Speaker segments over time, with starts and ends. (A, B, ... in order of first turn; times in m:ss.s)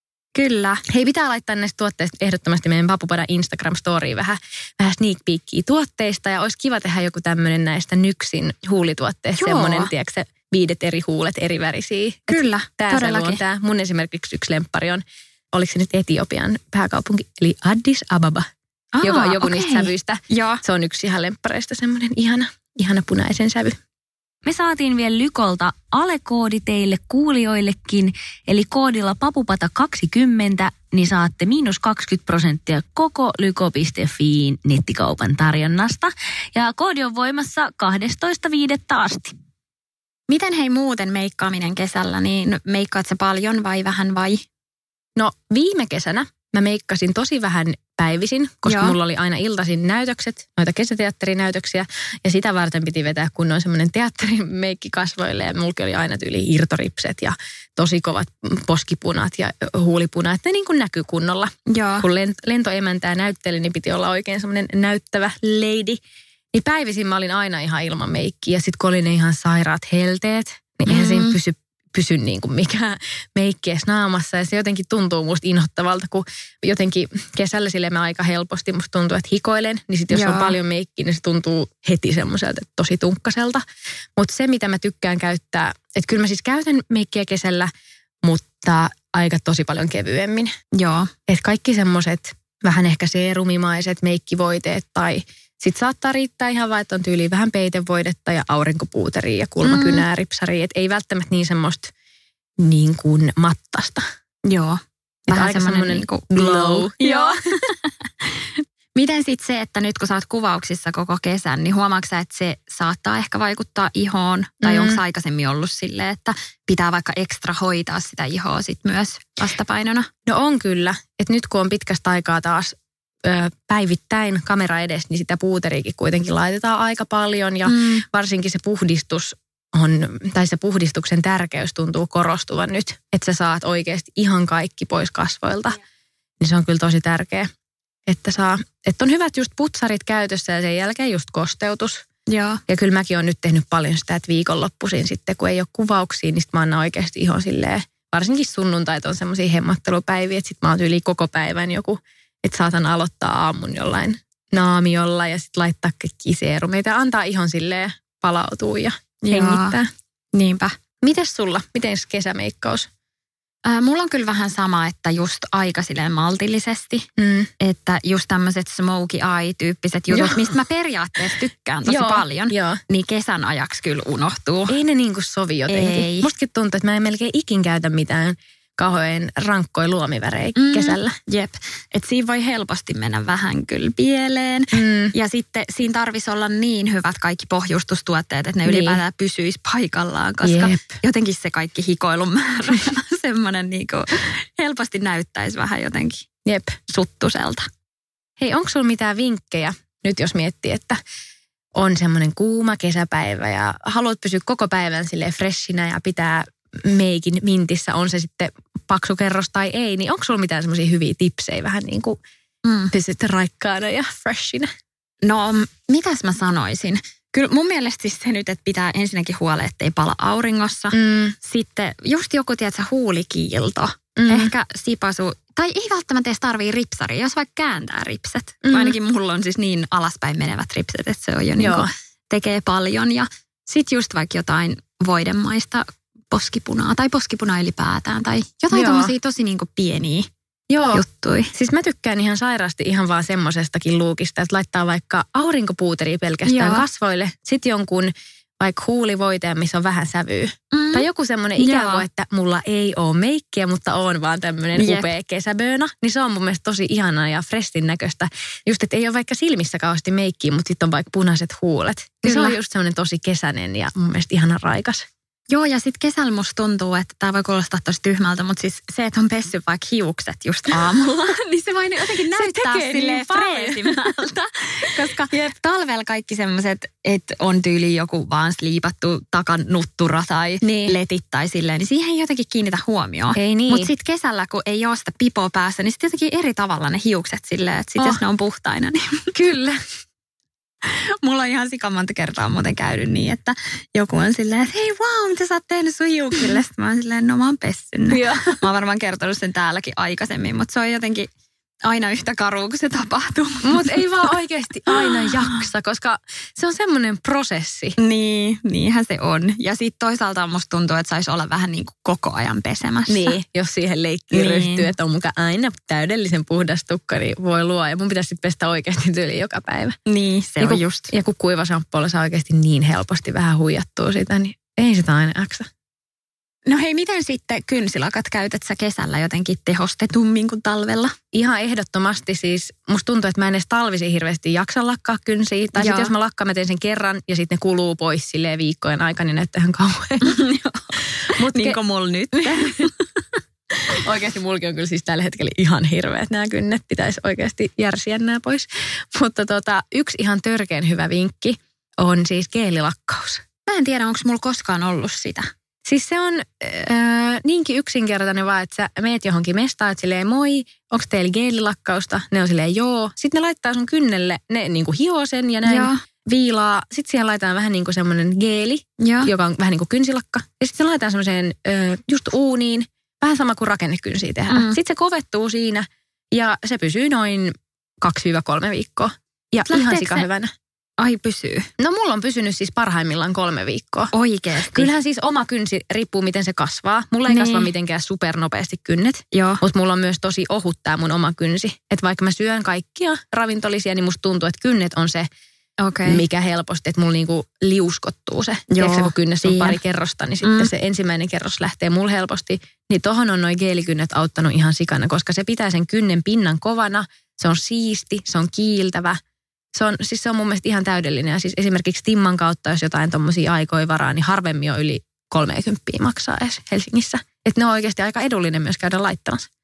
0:00.4-0:00.8 A
0:00.9-0:18.5 B
0:09.4-0:09.9 A
0:12.3-0:13.4 A
0:19.0-0:20.6 A
0:19.0-0:23.8 B
0:24.4-0:39.3 C
0:40.3-0:44.4 A
0:45.2-1:06.0 B
0:48.6-0:49.0 A
1:01.7-1:02.0 A
1:06.5-1:23.6 B
1:10.9-1:11.4 A
1:20.1-1:20.5 A
1:24.2-1:27.7 B
1:28.2-1:30.5 B
1:30.8-1:31.1 A
1:31.3-1:41.9 B
1:39.6-1:40.0 A
1:42.6-1:44.1 B
1:44.5-2:00.1 A
1:45.3-1:47.3 B
1:54.6-1:55.0 B
2:00.3-2:15.8 B
2:07.6-2:08.0 A
2:16.4-2:17.5 B
2:18.0-2:22.0 B
2:22.3-2:22.6 A
2:22.7-2:39.9 B
2:39.2-2:39.8 A
2:40.3-2:40.8 A
2:41.0-2:42.9 B
2:43.6-2:47.1 A
2:47.2-2:47.5 B
2:47.6-2:54.8 A
2:50.1-2:50.5 B
2:51.8-2:52.8 B
2:54.7-3:01.1 B
2:55.7-2:56.3 A
3:00.6-3:16.3 A
3:04.7-3:05.1 B
3:08.6-3:09.0 B
3:10.4-3:11.0 B
3:16.4-3:16.8 B
3:16.9-3:17.7 A
3:18.4-3:21.0 B
3:21.8-3:32.2 B
3:32.6-3:32.9 A
3:32.9-3:34.7 B
3:35.2-4:00.3 A
3:40.9-3:41.4 B
3:44.2-3:44.5 B
3:48.6-3:49.0 B
3:51.6-3:51.9 B
3:58.7-3:59.1 B
4:00.7-4:25.1 B
4:00.9-4:01.5 A
4:06.5-4:06.8 A
4:10.7-4:11.0 A
4:11.6-4:12.0 A
4:14.8-4:15.1 A
4:22.2-4:22.5 A
4:25.5-4:49.3 A
4:32.0-4:34.2 B
4:34.9-4:35.5 B
4:40.6-4:41.0 B
4:43.4-4:43.9 B
4:49.4-4:49.8 B
4:50.8-5:01.3 A
4:58.1-4:58.6 B
5:01.8-5:04.1 A
5:03.6-5:08.0 B
5:04.9-5:05.6 A
5:08.0-5:13.4 A
5:13.1-5:20.0 B
5:14.3-5:14.9 A
5:20.1-5:21.1 A
5:20.6-5:25.7 B
5:26.7-5:31.1 A
5:31.3-5:40.4 B
5:35.8-5:36.1 A
5:40.2-5:43.0 A
5:41.4-5:41.8 B
5:42.4-5:42.9 B
5:43.9-5:53.4 B
5:53.7-5:55.5 A
5:55.9-6:20.5 B
6:05.6-6:06.0 A
6:09.0-6:09.3 A
6:14.5-6:14.8 A
6:19.7-6:20.2 A
6:21.0-6:21.7 A
6:21.8-6:24.1 B
6:24.1-6:24.9 A
6:24.7-6:35.3 B
6:27.3-6:27.7 A
6:29.3-6:29.6 A
6:35.8-6:36.2 A
6:36.0-6:49.2 B
6:38.7-6:39.8 A
6:40.4-6:40.7 A
6:49.7-6:59.5 B